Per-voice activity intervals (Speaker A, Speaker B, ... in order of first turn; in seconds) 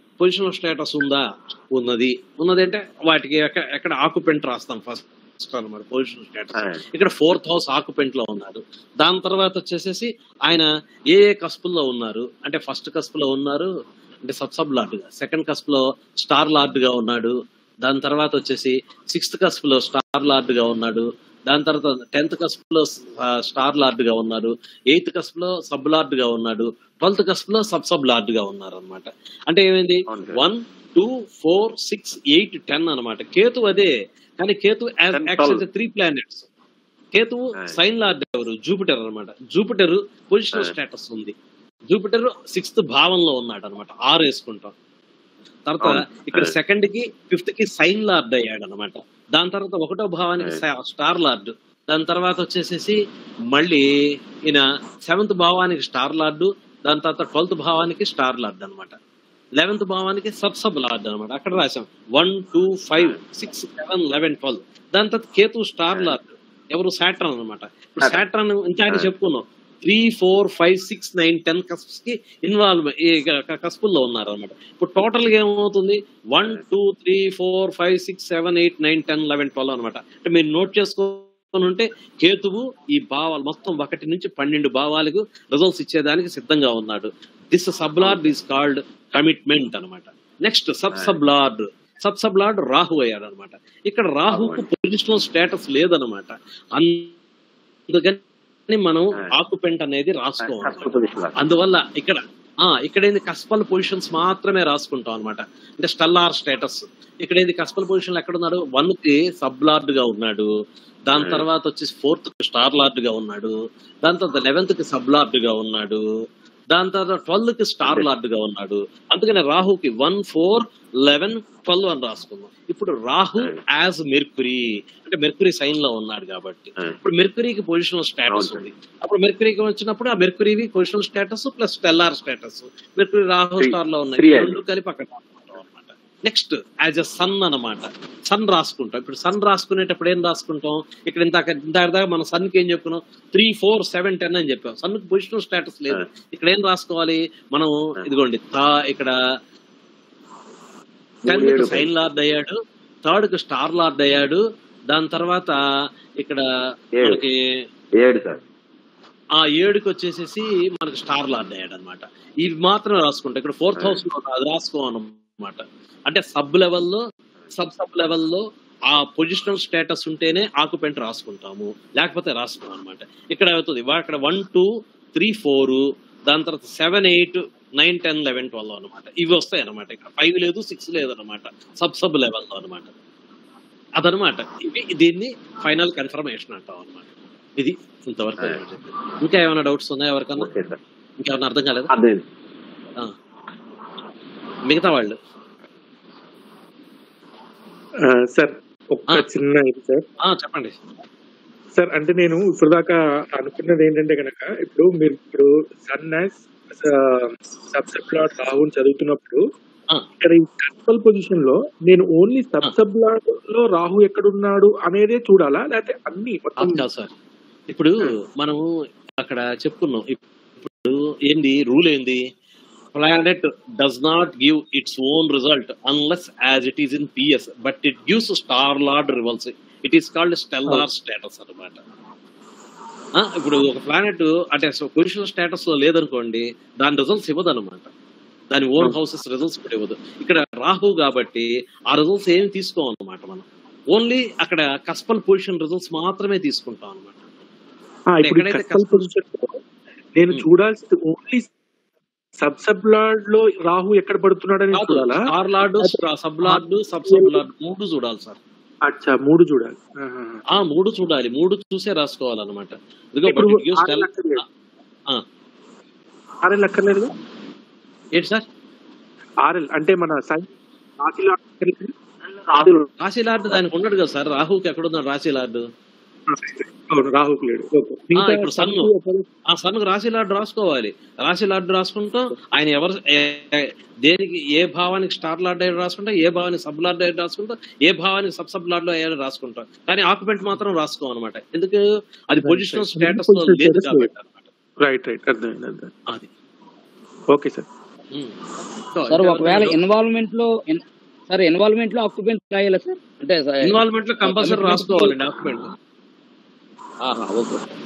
Speaker A: 0.2-13.7, 14.2-36.5, 37.1-41.3, 41.9-44.7, 45.7-53.0, 53.5-53.8, 54.5-59.0, 59.6-97.1, 97.9-110.5, 111.0-116.0, 116.7-149.1, 151.2-155.6, 157.0-157.3, 159.3-167.0, 167.5-182.9, 184.0-187.1, 187.6-190.5, 191.2-191.9, 194.7-195.2, 200.2-200.7, 216.6-217.1, 217.7-218.6, 219.2-222.2, 222.9-231.8, 233.2-237.9, 238.5-247.2, 248.2-249.1, 254.7-258.4, 260.5-264.4, 268.1-268.4, 273.0-275.6, 278.1-278.9, 279.5-294.5, 298.9-299.8, 303.6-305.7
Speaker B: 6.5-6.8, 30.1-30.4, 35.1-35.6, 45.8-46.5, 65.9-66.2, 88.0-88.3, 90.9-91.2, 94.3-94.7, 100.4-101.3, 111.1-111.5, 117.8-118.1, 128.3-128.7, 133.6-134.6, 151.2-151.9, 158.0-158.4, 163.8-164.0, 190.4-190.8, 191.9-192.2
Speaker C: 198.0-200.0, 201.7-209.4, 210.2-216.8, 248.1-249.6, 250.2-251.5, 252.4-255.2, 255.8-257.4, 258.9-260.4, 263.2-264.4, 266.4-267.1, 269.4-271.9, 272.5-272.9, 276.3-279.2, 292.4-294.1, 294.8-295.9, 297.3-297.6
Speaker D: 299.1-305.1, 307.0-307.6